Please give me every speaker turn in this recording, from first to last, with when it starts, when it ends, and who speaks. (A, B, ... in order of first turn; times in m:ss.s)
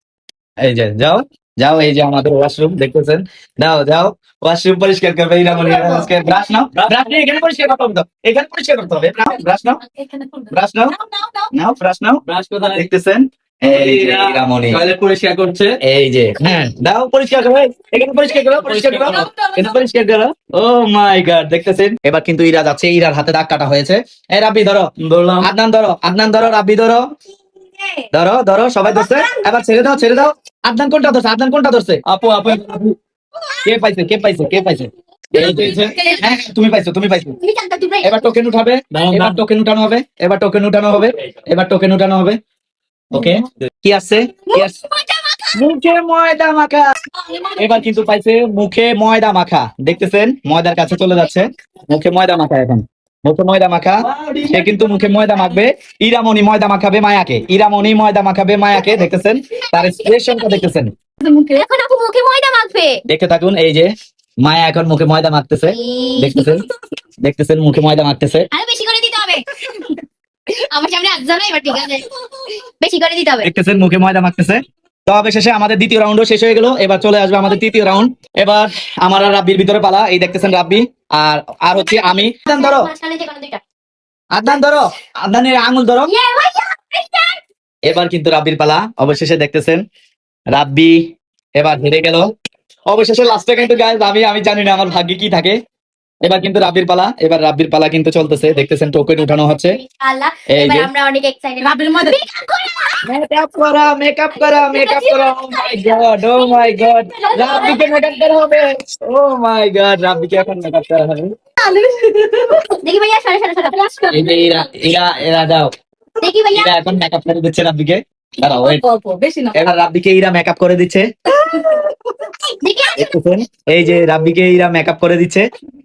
0:00.6-0:09.8 A
0:05.7-0:06.1 B
0:09.2-0:11.5 B
0:10.5-0:10.9 A
0:11.5-0:12.2 A
0:12.2-0:12.9 C
0:12.7-0:14.8 A
0:13.6-0:15.8 C
0:15.8-0:27.1 A
0:18.3-0:19.8 B
0:18.6-0:19.3 C
0:25.0-0:25.5 C
0:28.1-0:32.8 A
0:32.4-0:32.9 C
0:33.6-0:37.4 A
0:35.3-0:35.8 C
0:35.4-0:36.2 B
0:37.4-0:38.2 D
0:38.0-0:42.4 A
0:38.9-0:39.4 C
0:43.1-0:44.8 A
0:44.6-0:45.6 D
0:45.5-0:46.9 A
0:47.2-0:47.9 B
0:47.6-1:00.9 A
0:54.0-0:55.4 C
1:00.0-1:00.7 D
1:01.2-1:01.5 B
1:01.3-1:03.0 D
1:03.1-1:06.7 A
1:05.7-1:06.5 D
1:07.2-1:08.5 A
1:08.5-1:09.5 D
1:10.6-1:12.1 D
1:12.8-1:13.5 D
1:13.4-1:22.9 A
1:21.9-1:23.6 D
1:24.3-1:26.1 A
1:26.0-1:27.4 D
1:27.8-1:29.8 A
1:30.5-1:32.3 A
1:32.9-1:35.6 A
1:36.2-1:39.8 A
1:39.2-1:43.0 D
1:40.5-1:40.9 A
1:41.6-1:42.2 B
1:43.0-1:51.3 A
1:44.3-1:46.6 D
1:47.1-1:47.8 B
1:47.1-1:48.0 D
1:51.6-1:52.7 B
1:52.8-1:53.8 D
1:53.7-1:54.6 B
1:54.1-1:55.7 A
1:56.2-1:56.7 D
1:56.5-1:58.8 A
1:58.6-1:59.5 B
1:59.5-2:01.1 A
2:01.4-2:02.5 B
2:02.6-2:03.1 D
2:03.0-2:05.5 A